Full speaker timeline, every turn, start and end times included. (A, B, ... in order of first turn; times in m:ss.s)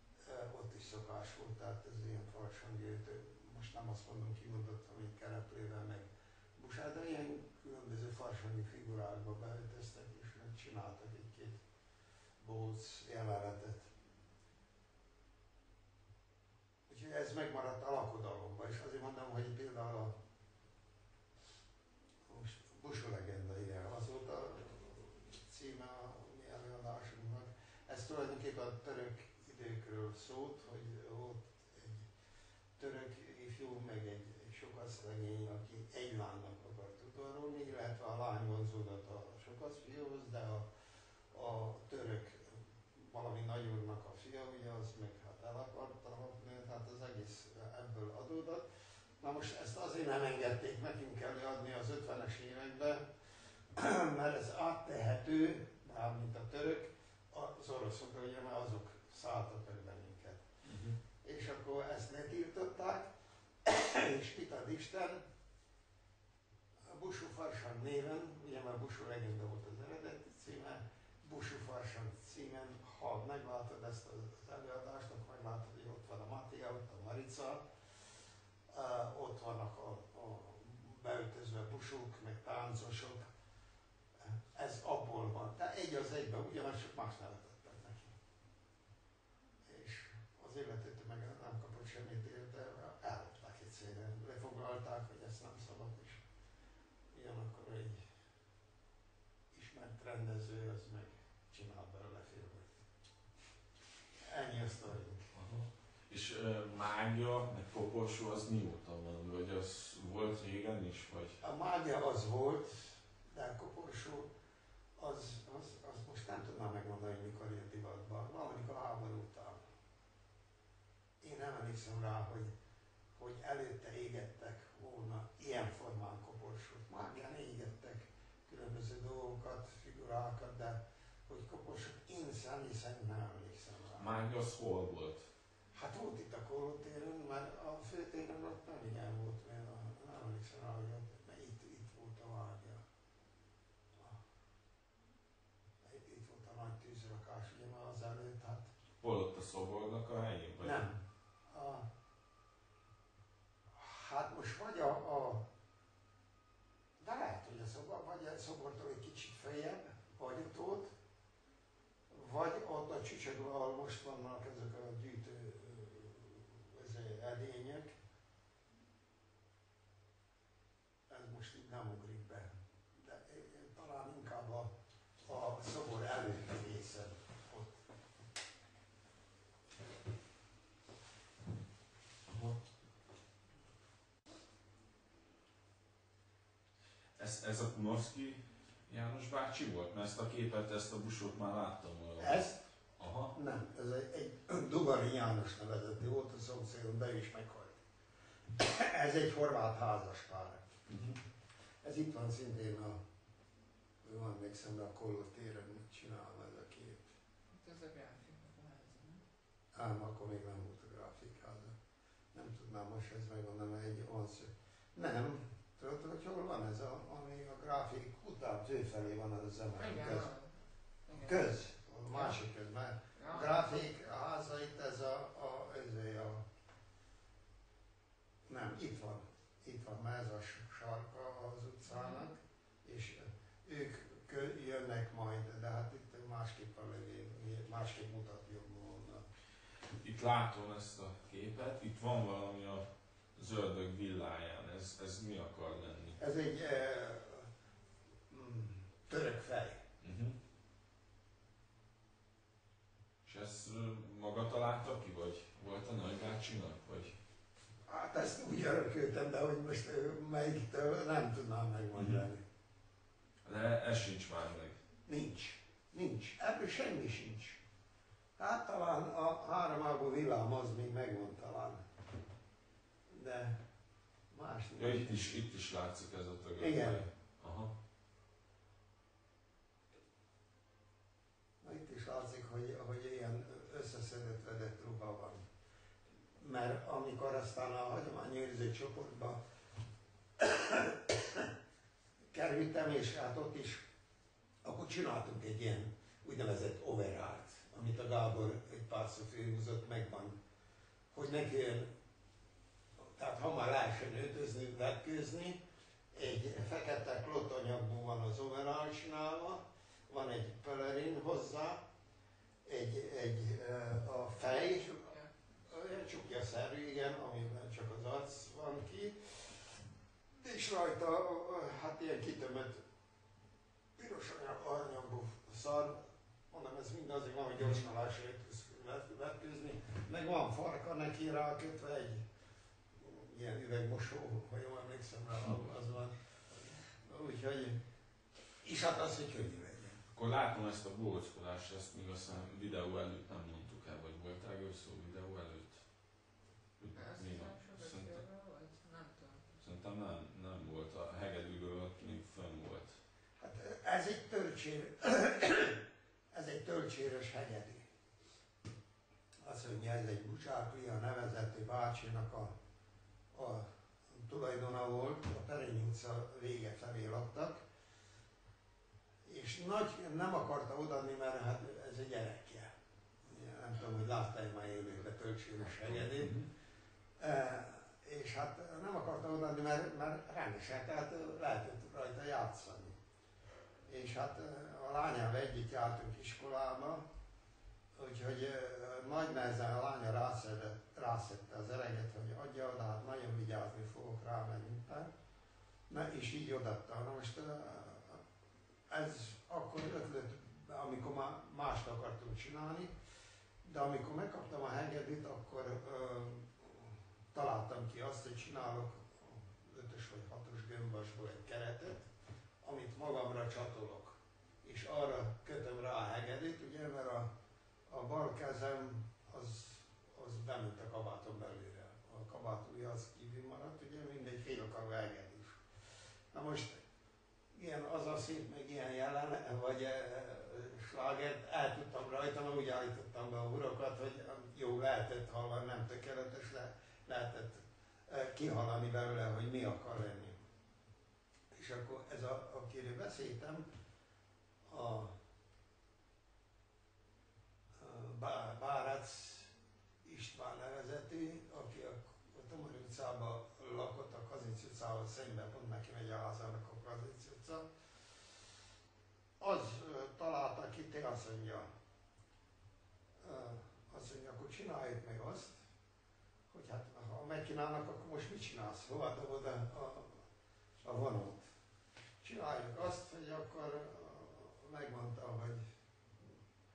0:00.3-0:11.6 A
0:12.4-0:13.9 A
0:16.9-0:20.1 A
0:22.3-0:32.1 A
0:32.8-0:40.7 A
0:41.3-0:48.6 A
0:49.2-0:53.1 A
0:53.7-1:00.5 A
1:00.6-1:01.0 B
1:01.2-1:03.1 A
1:03.6-1:05.2 A
1:06.9-1:17.6 A
1:18.7-1:23.3 A
1:24.2-1:28.2 A
1:29.6-1:36.2 A
1:37.1-1:38.1 A
1:39.5-1:42.7 A
1:44.2-1:45.3 A
1:45.4-1:51.4 B
1:51.4-1:54.3 A
1:55.0-1:59.6 A
2:01.2-2:02.5 A
2:03.2-2:14.1 A
2:14.0-2:15.2 B
2:15.7-2:22.8 A
2:25.8-2:28.7 A
2:29.0-2:30.8 B
2:30.6-2:31.9 A
2:33.8-2:35.5 A
2:37.0-2:40.9 A
2:42.1-2:47.9 A
2:51.1-2:54.7 A
2:55.3-2:57.7 A
3:07.2-3:12.4 B
3:12.2-3:12.7 A
3:13.0-3:13.3 B
3:13.3-3:17.8 A
3:18.6-3:20.7 A
3:20.9-3:21.2 B
3:21.8-3:23.0 A
3:24.0-3:27.1 A
3:27.5-3:29.2 C
3:29.7-3:31.8 A
3:32.3-3:40.3 A
3:39.8-3:41.5 C
3:41.1-3:46.4 A
3:42.1-3:42.4 C
3:43.2-3:43.6 C
3:48.5-3:59.2 A
3:51.9-3:52.2 C
4:00.0-4:06.2 B
4:06.2-4:07.5 A
4:08.3-4:09.8 A
4:10.0-4:10.4 B
4:13.2-4:17.2 B
4:17.9-4:22.4 A
4:22.0-4:22.2 B
4:23.4-4:24.8 B
4:25.1-4:27.6 A
4:28.4-4:31.8 A
4:33.1-4:33.6 A
4:34.3-4:35.3 A
4:34.8-4:37.7 B
4:36.6-4:37.1 A
4:41.6-4:45.4 A
4:46.4-4:49.4 A
4:50.4-4:51.5 A
4:52.3-4:53.8 A
4:54.6-5:00.4 A
5:01.1-5:01.9 A
5:03.0-5:05.6 A
5:06.1-5:11.8 A
5:12.6-5:15.1 A
5:14.5-5:15.3 C
5:15.7-5:19.8 A
5:20.4-5:22.8 A
5:24.0-5:26.0 A
5:26.5-5:32.2 A
5:33.0-5:37.8 A
5:38.6-5:40.0 A
5:40.1-5:45.8 B
5:46.8-5:48.2 B
5:46.9-5:49.6 C
5:49.6-5:53.0 B
5:53.4-5:57.9 A
5:59.4-6:02.5 A
6:03.3-6:07.6 A
6:09.2-6:12.7 A
6:13.3-6:16.4 A
6:15.9-6:16.5 B
6:17.2-6:23.0 A
6:23.9-6:27.0 A
6:28.0-6:35.1 A
6:35.9-6:38.2 A
6:38.9-6:42.9 A
6:43.6-6:52.1 A
6:52.6-6:57.3 A
6:57.9-7:05.6 A
7:06.3-7:06.8 A
7:07.5-7:20.4 A
7:21.5-7:23.7 A
7:24.7-7:25.1 A
7:27.8-7:37.7 A
7:39.4-7:41.7 A
7:43.2-7:45.6 A
7:46.5-7:50.2 A
7:50.8-7:51.4 A
7:52.2-7:55.6 A